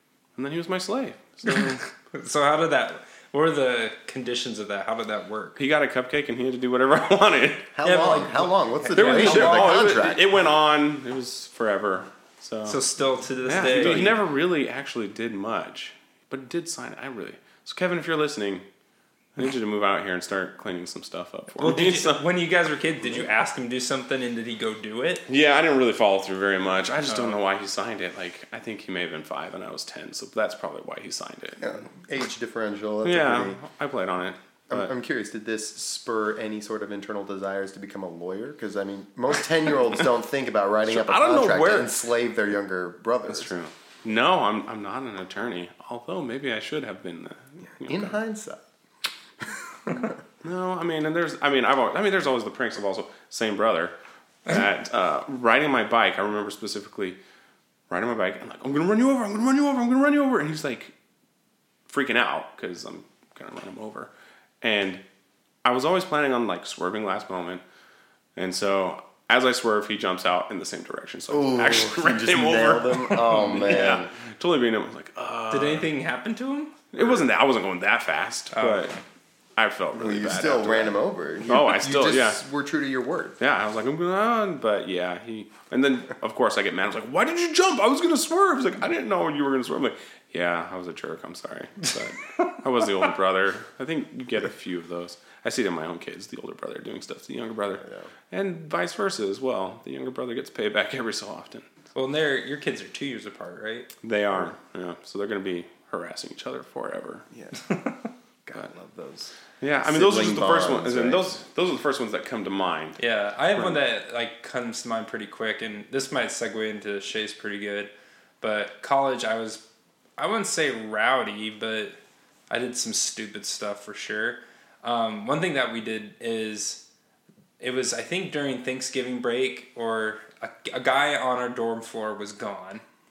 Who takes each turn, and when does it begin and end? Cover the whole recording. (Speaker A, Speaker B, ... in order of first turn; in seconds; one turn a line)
Speaker A: 0.4-1.8
Speaker B: 1.4-5.6
Speaker A: 5.6-7.7
Speaker C: 7.7-10.3
Speaker B: 7.8-9.8
Speaker A: 8.9-12.8
Speaker B: 12.7-14.2
Speaker A: 13.4-18.6
Speaker C: 13.8-14.1
Speaker A: 19.4-22.2
Speaker B: 21.6-25.3
Speaker A: 25.3-31.6
Speaker B: 27.1-27.4
Speaker C: 31.6-33.6
Speaker A: 33.0-34.9
Speaker C: 34.7-43.5
Speaker A: 40.9-41.9
Speaker A: 43.3-48.2
Speaker C: 47.8-48.6
Speaker A: 50.4-54.0
Speaker A: 54.5-57.2
Speaker A: 57.9-60.9
Speaker A: 61.9-64.1
Speaker A: 64.6-65.0
Speaker A: 65.6-67.6
Speaker A: 68.4-75.9
Speaker C: 71.3-74.1
Speaker B: 75.5-76.8
Speaker A: 76.9-78.9
Speaker C: 77.0-77.2
Speaker B: 78.5-79.0
Speaker A: 79.6-80.9
Speaker C: 79.9-83.4
Speaker A: 81.5-82.4
Speaker A: 83.4-101.7
Speaker C: 97.8-98.1
Speaker B: 102.0-103.9
Speaker A: 104.0-107.3
Speaker C: 107.3-107.6
Speaker B: 107.7-108.1
Speaker C: 108.5-111.4
Speaker A: 109.6-113.0
Speaker B: 113.0-119.6
Speaker B: 120.2-122.0
Speaker B: 122.5-126.8
Speaker B: 127.6-132.8